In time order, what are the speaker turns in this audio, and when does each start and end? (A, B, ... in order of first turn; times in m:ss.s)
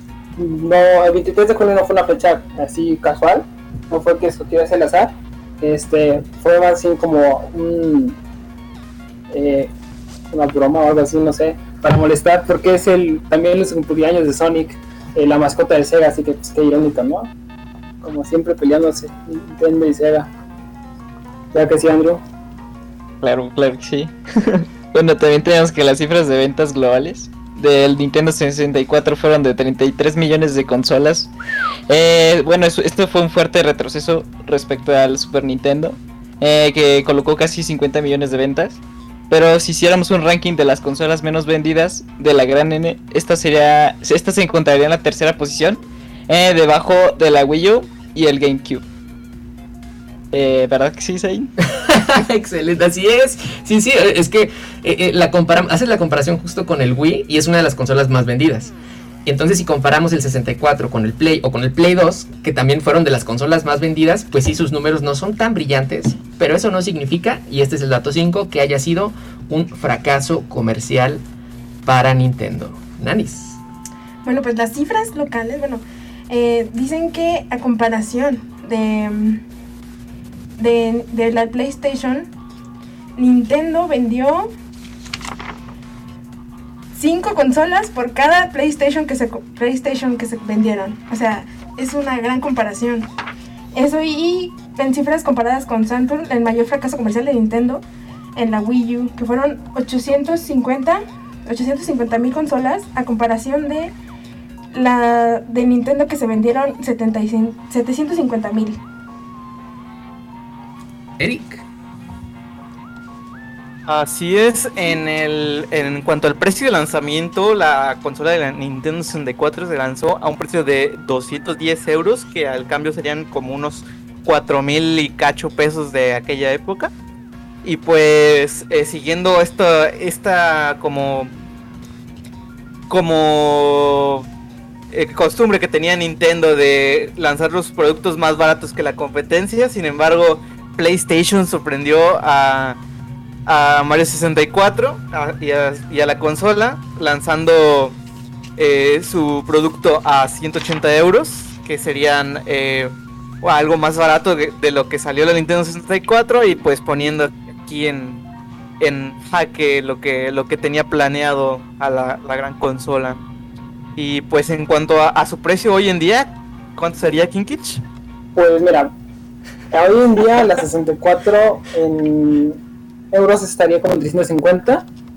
0:00.4-0:08.2 A
0:09.3-0:09.7 A
0:10.3-0:17.3 A
0:18.0-0:20.3 A
0:21.5-0:22.2 A
0:23.2-0:31.3 B
0:31.9-0:48.8 B
0:50.3-0:51.5 B
0:51.7-0:58.7 C
0:59.2-1:11.2 C
1:11.8-1:13.6 C
1:14.2-1:19.4 D
1:20.6-1:22.3 D
1:23.2-1:24.5 D
1:27.0-1:33.1 D
1:33.7-1:37.8 D
1:38.4-1:43.9 D
1:44.7-1:48.8 D
1:51.2-1:51.7 C
1:53.9-2:06.9 E
2:07.6-2:11.3 E
2:12.9-2:14.3 E
2:14.9-2:22.8 E
2:23.5-2:28.0 E
2:28.6-2:38.2 E
2:38.8-2:43.2 E
2:44.0-2:47.8 E
2:48.4-2:48.9 A
2:49.7-2:52.6 A
2:53.1-2:54.9 A